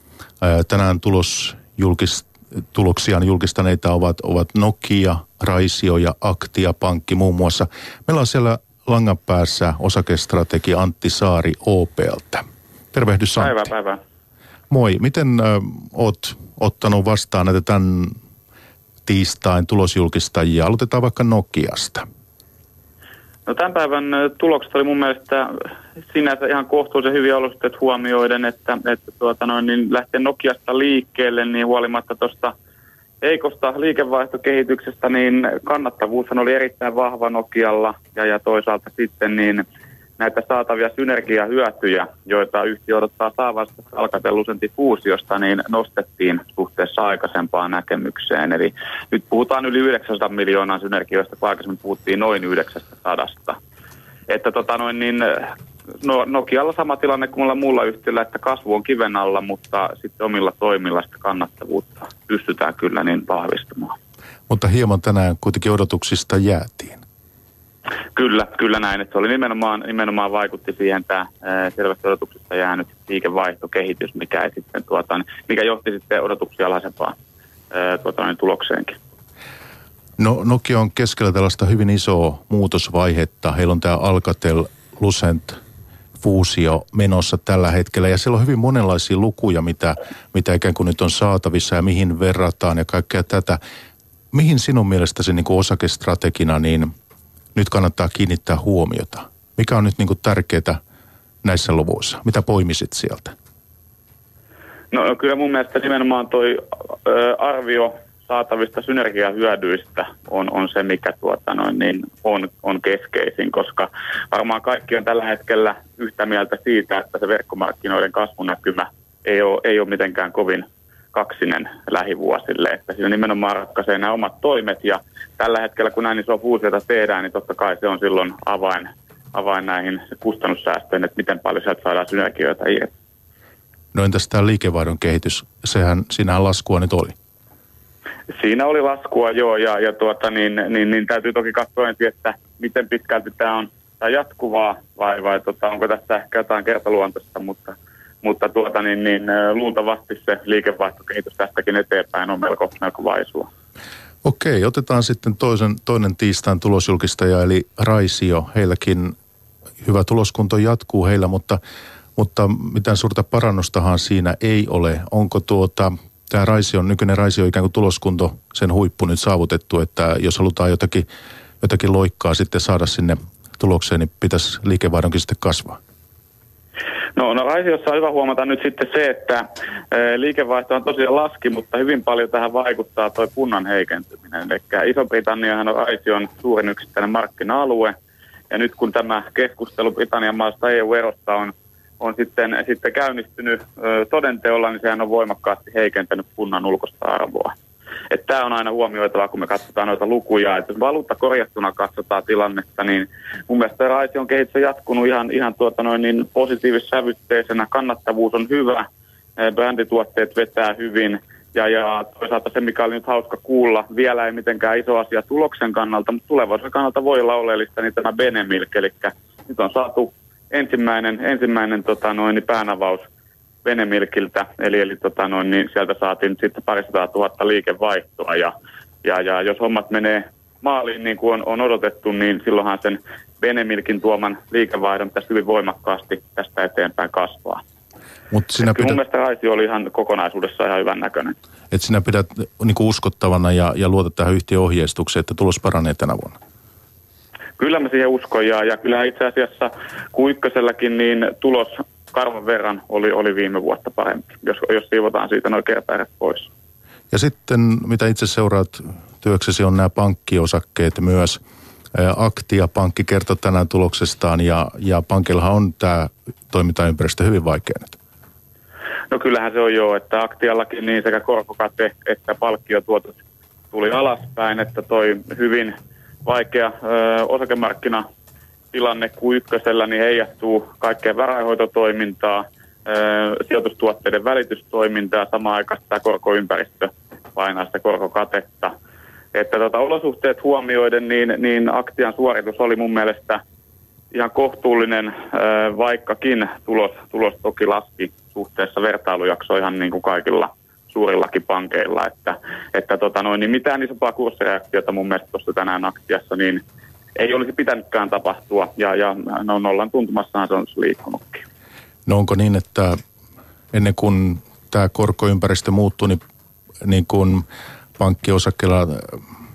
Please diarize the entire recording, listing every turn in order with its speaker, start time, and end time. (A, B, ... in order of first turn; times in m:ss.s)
0:00.4-0:13.7 A
0:13.4-0:14.0 B
0:14.7-0:18.2 A
0:19.0-0:22.0 A
0:23.5-0:25.5 B
0:26.1-0:32.5 B
0:33.2-0:39.6 B
0:40.2-0:53.6 B
0:54.3-1:03.9 B
1:04.5-1:07.0 A
1:08.2-1:17.1 B
1:17.7-1:19.0 B
1:20.2-1:25.6 A
1:26.2-1:33.6 A
1:34.3-1:36.9 A
1:37.5-1:40.8 A
1:41.4-1:43.3 A
1:44.9-2:12.9 B
2:13.9-2:17.1 A
2:18.3-2:33.5 B
2:34.2-2:39.1 A
2:39.8-2:41.6 A
2:42.2-2:51.1 A
2:51.6-2:55.8 A
2:57.2-3:07.9 B
3:08.5-3:17.5 B
3:18.1-3:28.8 B
3:29.4-3:43.0 B
3:43.6-3:48.5 B
3:49.0-3:57.6 B
3:58.3-3:59.0 A
3:58.6-4:01.3 B
4:01.7-4:06.4 A
4:07.6-4:16.5 B
4:17.1-4:21.4 A
4:21.9-4:27.9 A
4:29.1-4:33.1 B
4:33.7-4:38.0 B
4:38.7-4:48.7 B
4:49.3-4:53.4 B
4:54.1-5:06.6 B
5:07.2-5:11.4 B
5:12.0-5:13.0 A
5:13.7-5:16.2 A
5:16.8-5:17.4 A
5:18.0-5:19.2 A